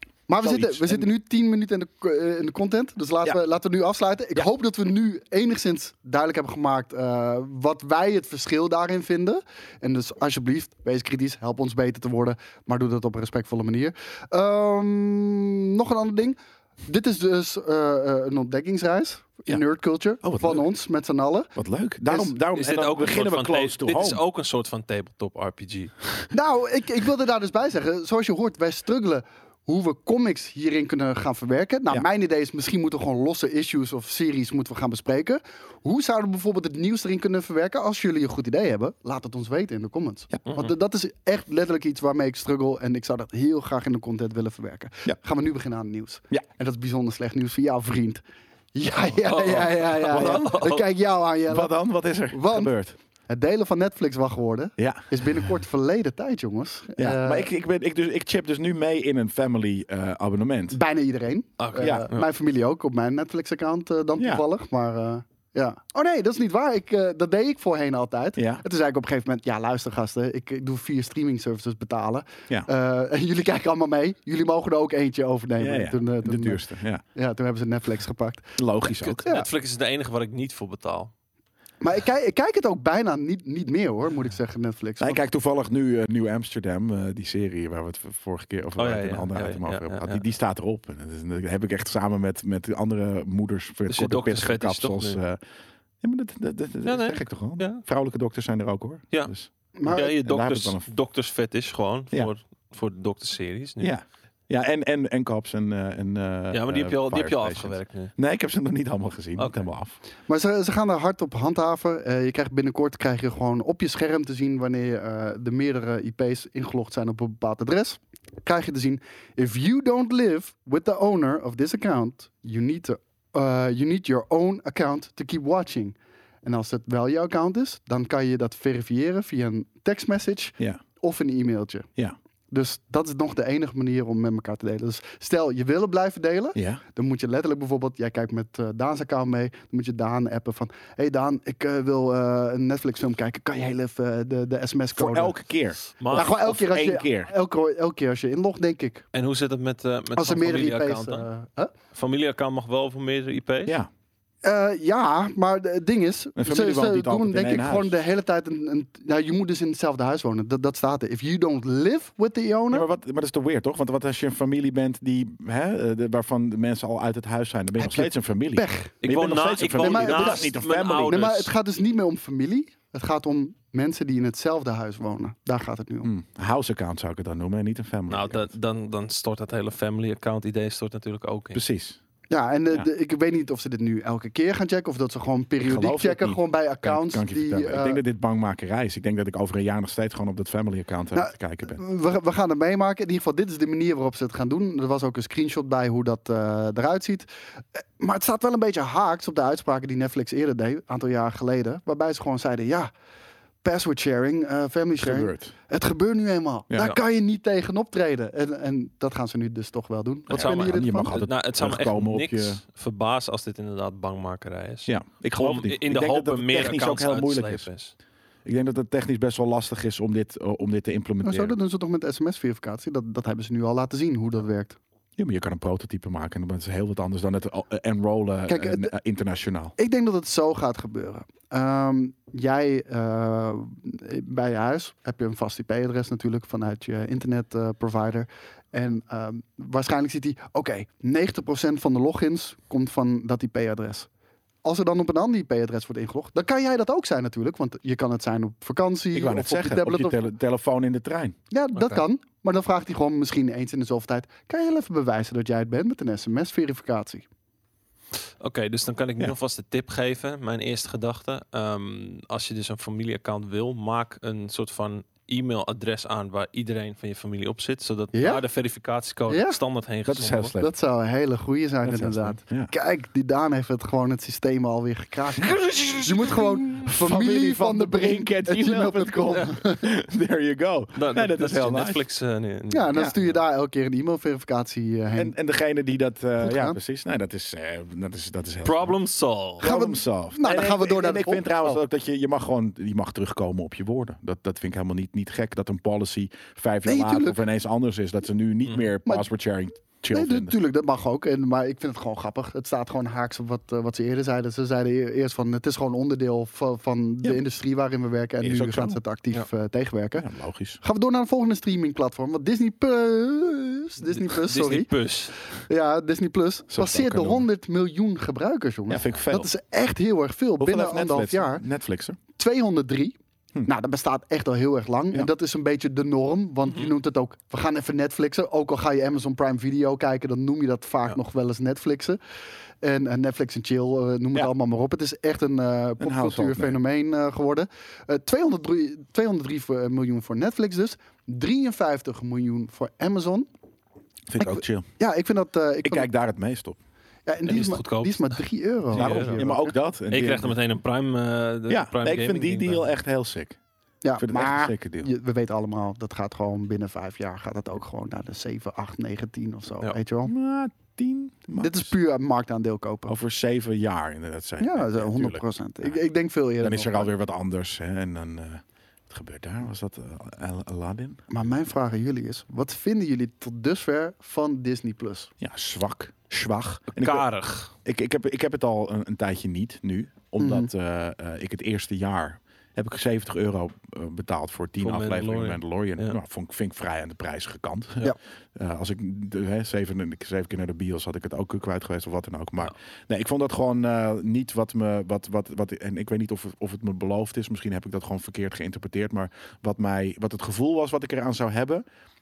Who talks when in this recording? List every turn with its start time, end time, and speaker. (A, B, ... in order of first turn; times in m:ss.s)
0:00.3-0:21.5 A
0:00.4-0:01.1 B
0:20.2-0:20.6 B
0:21.6-0:24.2 B
0:22.1-0:22.4 A
0:22.5-0:26.3 C
0:26.3-0:48.2 A
0:40.5-0:40.7 C
0:48.8-0:51.8 A
0:49.3-0:50.9 B
0:49.4-0:50.4 C
0:51.5-0:53.0 B
0:52.3-0:52.7 A
0:53.3-0:57.5 A
0:54.8-0:55.2 B
0:57.0-1:00.8 B
1:00.7-1:16.6 A
1:01.6-1:02.2 C
1:01.8-1:02.1 B
1:04.2-1:04.4 B
1:08.4-1:08.6 B
1:15.6-1:17.0 B
1:17.1-1:18.5 A
1:18.6-1:19.2 B
1:19.0-1:21.1 C
1:21.8-1:25.2 A
1:25.0-1:35.4 B
1:28.8-1:30.2 C
1:33.9-1:35.2 C
1:36.0-1:40.9 B
1:36.8-1:37.8 C
1:39.8-1:40.1 A
1:39.9-1:43.9 C
1:43.8-1:50.0 B
1:46.5-1:48.1 C
1:49.4-1:49.7 C
1:50.3-2:11.9 A
2:12.5-2:25.4 A
2:16.6-2:16.8 B
2:24.9-2:27.3 B
2:26.0-2:26.3 C
2:26.1-2:29.1 A
2:29.1-2:31.3 C
2:30.2-2:31.7 A
2:31.9-2:33.8 C
2:34.4-2:42.8 A
2:36.4-2:38.0 B
2:42.7-2:51.3 B
2:47.8-2:48.9 A
2:49.0-2:51.5 C
2:49.8-2:56.1 A
2:56.0-2:58.5 B
2:58.1-3:01.6 C
3:01.5-3:02.0 B
3:02.3-3:08.0 A
3:05.6-3:11.8 B
3:11.1-3:22.9 A
3:23.6-3:31.3 A
3:25.0-3:25.5 B
3:30.3-3:37.9 C
3:30.3-3:32.6 B
3:34.9-3:37.7 B
3:38.4-3:41.6 B
3:41.2-3:44.8 A
3:45.2-3:49.7 B
3:48.5-3:48.9 A
3:49.8-4:04.1 A
4:04.6-4:10.2 A
4:09.1-4:11.4 B
4:11.5-4:17.3 A
4:18.4-4:30.6 C
4:28.2-4:28.4 A
4:29.3-4:29.6 A
4:30.0-4:30.7 B
4:30.6-4:39.9 A
4:31.8-4:32.7 B
4:35.4-4:42.0 B
4:40.9-4:43.0 C
4:42.7-4:45.3 A
4:45.2-4:49.0 B
4:46.4-4:46.8 A
4:48.6-4:49.6 C
4:49.6-5:00.6 B
4:49.6-4:51.8 A
4:56.9-4:57.4 A
5:00.1-5:10.3 A
5:08.4-5:09.0 B
5:10.2-5:10.8 B
5:10.8-5:14.9 A
5:14.1-5:15.4 C
5:15.7-5:21.6 A
5:16.7-5:17.4 B
5:18.9-5:19.5 B
5:20.6-5:22.2 B
5:22.4-5:23.2 A
5:23.7-5:32.2 A
5:32.8-5:43.5 A
5:36.0-5:36.8 B
5:44.3-5:44.9 B
5:44.4-5:46.1 A
5:45.8-5:46.8 B
5:47.3-5:49.7 A
5:47.5-5:49.5 C
5:48.9-5:50.6 B
5:50.1-5:52.9 C
5:51.7-5:53.6 B
5:54.0-6:00.3 A
5:54.2-5:55.1 B
6:00.2-6:01.9 B
6:01.6-6:03.1 A
6:03.1-6:06.0 B
6:04.6-6:07.1 A
6:06.6-6:11.2 B
6:11.3-6:15.3 A
6:15.4-6:17.3 B
6:16.9-6:17.7 C
6:17.8-6:41.8 B
6:20.4-6:20.7 A
6:24.8-6:26.2 C